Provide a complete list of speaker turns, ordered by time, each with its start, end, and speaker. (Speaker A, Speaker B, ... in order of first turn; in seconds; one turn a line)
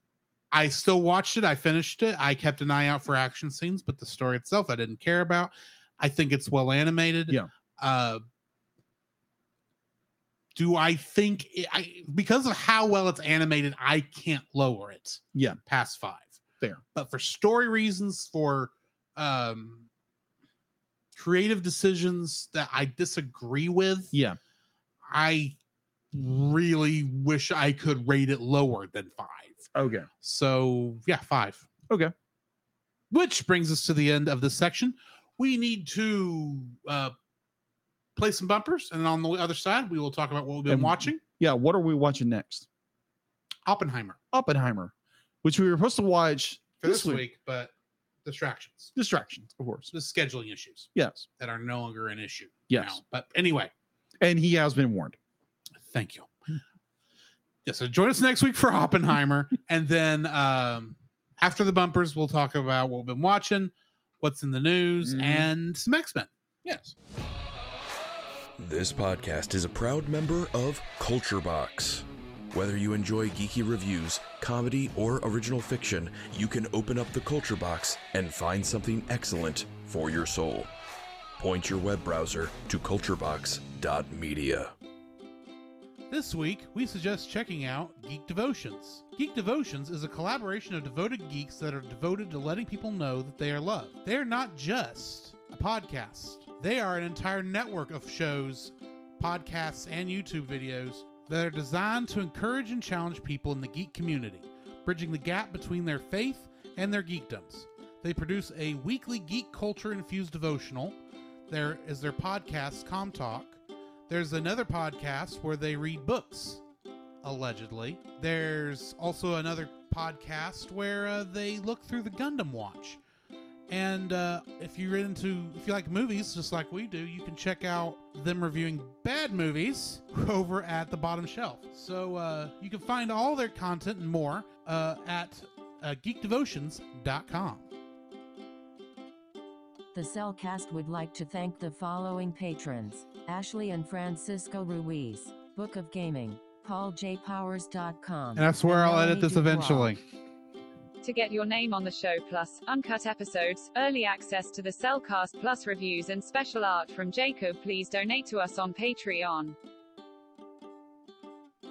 Speaker A: 0.5-8.2
Speaker A: 10.6-16.4
Speaker B: 15.3-15.6
Speaker A: 16.9-19.9
Speaker A: 21.1-24.1
Speaker B: 24.1-24.4
Speaker A: 25.1-25.6
Speaker A: 26.1-29.7
Speaker B: 29.7-30.1
Speaker A: 30.2-31.6
Speaker A: 33.1-37.1
Speaker A: 38.1-41.2
Speaker B: 40.7-42.6
Speaker A: 43.6-44.2
Speaker B: 44.3-44.9
Speaker B: 45.4-47.2
Speaker A: 46.8-47.7
Speaker A: 48.2-48.9
Speaker B: 48.9-49.9
Speaker A: 49.9-53.7
Speaker B: 50.9-51.3
Speaker B: 52.7-53.0
Speaker B: 54.2-55.2
Speaker A: 55.8-56.3
Speaker A: 57.6-66.3
Speaker B: 65.0-65.5
Speaker B: 66.6-66.9
Speaker C: 68.6-80.7
Speaker C: 81.4-84.7
Speaker A: 86.1-111.0
Speaker A: 111.5-113.6
Speaker A: 114.1-116.6
Speaker A: 117.2-123.0
Speaker A: 123.7-137.7
Speaker D: 139.9-149.9
Speaker A: 148.4-150.0
Speaker E: 151.0-159.6